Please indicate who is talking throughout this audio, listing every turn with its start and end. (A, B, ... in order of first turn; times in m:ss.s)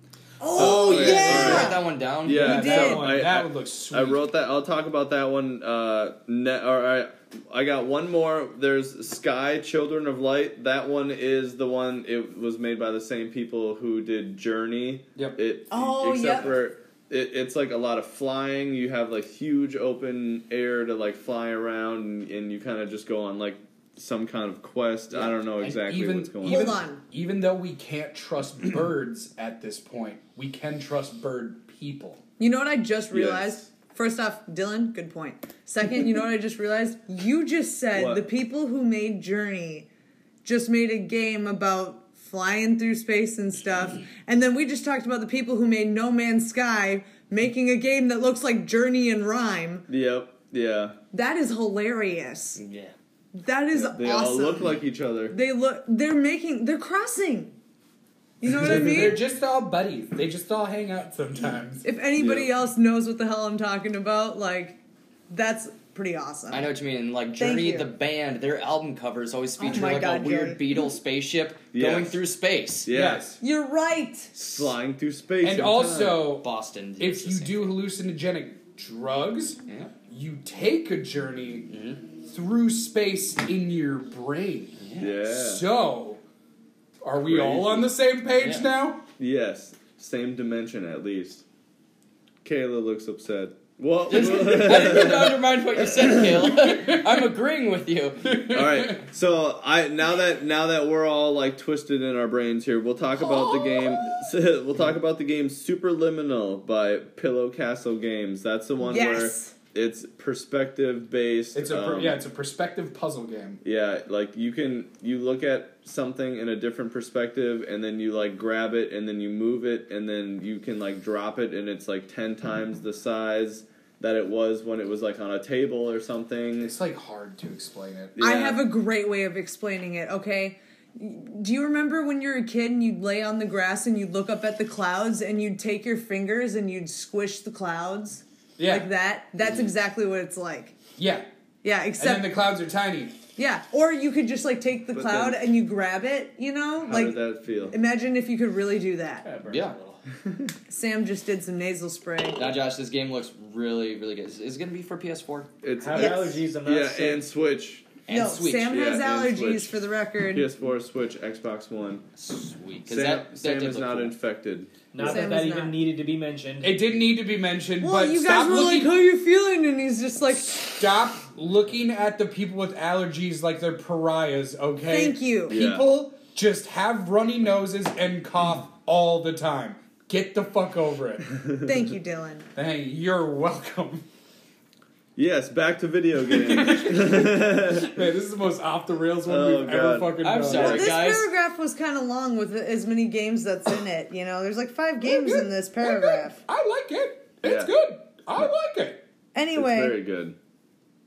0:00.4-0:03.1 A
0:00.5-0:02.5 B
0:00.5-0:26.8 C
0:01.3-0:01.6 D
0:02.4-0:04.2 D
0:15.7-0:16.6 A
0:25.2-0:32.2 D
0:26.4-0:27.0 A
0:32.4-0:39.9 A
0:33.1-0:33.7 C
0:37.9-0:38.2 C
0:40.4-0:49.9 A
0:49.9-0:51.0 C
0:51.1-0:52.6 A
0:52.6-0:52.9 B
0:53.3-0:54.8 A
0:53.7-0:55.4 C
0:55.3-0:57.6 A
0:58.4-0:59.2 A
0:58.6-1:01.9 D
1:01.8-1:04.8 A
1:02.2-1:02.5 C
1:05.3-1:06.7 A
1:06.5-1:12.9 B
1:07.4-1:07.9 A
1:09.6-1:10.6 A
1:11.7-1:12.2 C
1:12.9-1:13.3 C
1:12.9-1:13.4 D
1:13.4-1:14.3 A
1:14.4-1:16.2 C
1:15.4-1:16.5 D
1:16.4-1:17.7 B
1:17.0-1:26.2 D
1:21.7-1:22.0 B
1:24.8-1:25.1 B
1:25.0-1:25.6 C
1:27.0-1:29.0 D
1:27.2-1:27.9 C
1:28.4-1:28.6 B
1:29.2-1:31.4 C
1:32.4-1:36.3 C
1:34.1-1:38.4 B
1:36.6-1:37.2 D
1:38.2-1:39.0 D
1:38.5-1:52.2 C
1:48.8-1:49.5 A
1:51.5-1:53.6 D
1:53.6-2:06.7 C
2:06.6-2:08.2 D
2:08.2-2:08.6 C
2:08.2-2:20.8 A
2:18.6-2:18.9 D
2:21.0-2:21.2 D
2:21.6-2:22.4 A
2:22.0-2:23.2 D
2:23.4-2:29.2 A
2:24.9-2:25.4 C
2:26.8-2:27.8 C
2:29.2-2:30.0 E
2:29.5-2:29.8 B
2:30.7-2:32.5 A
2:32.4-2:35.5 B
2:35.6-2:37.9 C
2:35.8-2:37.2 E
2:35.9-2:36.4 A
2:38.1-2:38.7 B
2:38.1-2:40.5 A
2:38.7-2:42.0 C
2:42.2-2:44.1 B
2:42.9-2:44.7 C
2:44.9-2:46.8 E
2:45.0-2:45.7 A
2:46.6-2:48.9 D
2:47.8-2:50.8 A
2:50.6-3:01.3 D
2:54.9-2:55.6 A
2:55.5-2:55.9 C
3:01.6-3:02.5 A
3:02.6-3:04.0 D
3:05.2-3:08.0 C
3:06.3-3:10.9 D
3:09.2-3:11.0 C
3:10.2-3:11.3 B
3:10.5-3:16.4 A
3:15.0-3:19.0 D
3:17.4-3:17.7 C
3:19.3-3:20.0 A
3:19.5-3:20.4 C